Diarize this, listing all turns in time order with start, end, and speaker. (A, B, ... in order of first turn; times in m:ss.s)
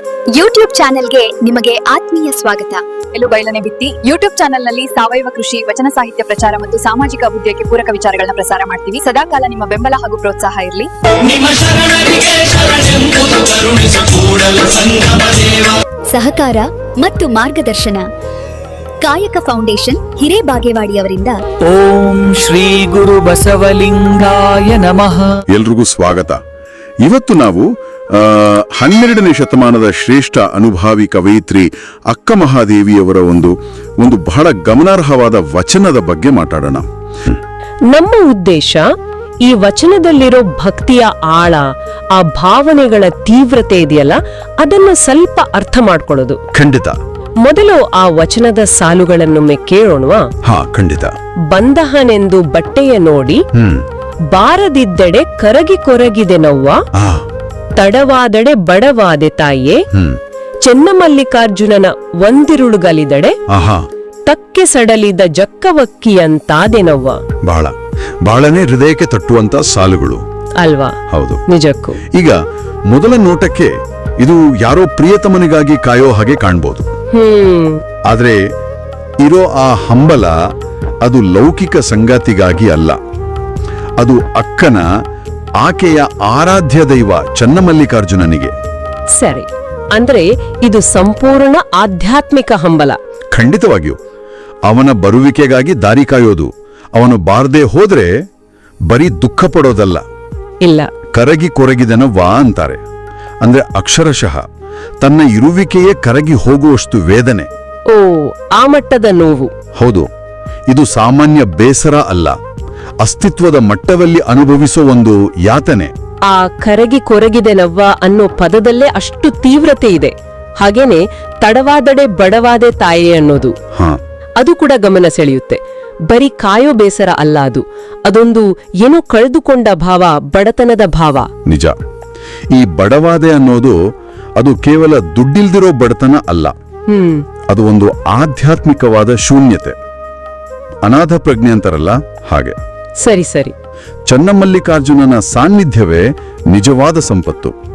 0:00.4-0:02.8 A
0:03.1-0:11.6 B
0:11.4-0:15.7 C
0:13.0-0:15.3 D
0:16.1-0:18.1 A
0:19.0-0:21.4 A
0:21.6-0:25.3 D
0:22.3-0:25.2 C
0:25.5-0:26.4 E
0:27.0-0:37.3 E
0:37.9-0:38.9 F
0:39.4-0:46.4 F
0:46.5-0:47.0 E
0:47.4-0:50.3 F
0:50.4-0:51.1 E
0:51.5-0:53.4 F
0:53.5-0:53.8 E
0:54.3-0:56.8 F
0:57.0-0:57.2 E
0:57.8-0:59.8 F
0:59.9-1:00.2 E
1:00.6-1:03.4 F
1:03.5-1:03.8 E
1:04.2-1:07.2 F
1:07.4-1:07.7 E
1:08.2-1:10.2 E
1:10.6-1:11.0 F
1:11.1-1:11.4 E
1:11.5-1:12.0 F
1:12.9-1:16.8 E
1:17.1-1:17.8 F
1:18.1-1:18.4 E
1:19.2-1:20.4 E
1:21.0-1:23.0 E
1:24.0-1:24.8 E
1:25.6-1:28.5 E
1:29.1-1:33.0 F
1:33.3-1:34.0 E
1:34.7-1:38.1 E
1:38.9-1:40.0 E
1:40.6-1:40.9 F
1:41.1-1:42.8 E
1:43.4-1:44.4 E
1:45.0-1:47.5 E
1:47.9-1:49.5 F
1:49.8-1:50.1 E
1:50.7-1:52.3 E
1:53.0-1:55.9 E
1:56.3-2:03.5 F
2:04.4-2:11.3 F
2:11.5-2:11.7 E
2:12.5-2:13.8 E
2:14.4-2:16.5 E
2:16.9-2:17.2 F
2:17.5-2:19.7 E
2:20.8-2:22.6 E
2:23.0-2:23.5 F
2:24.1-2:27.5 E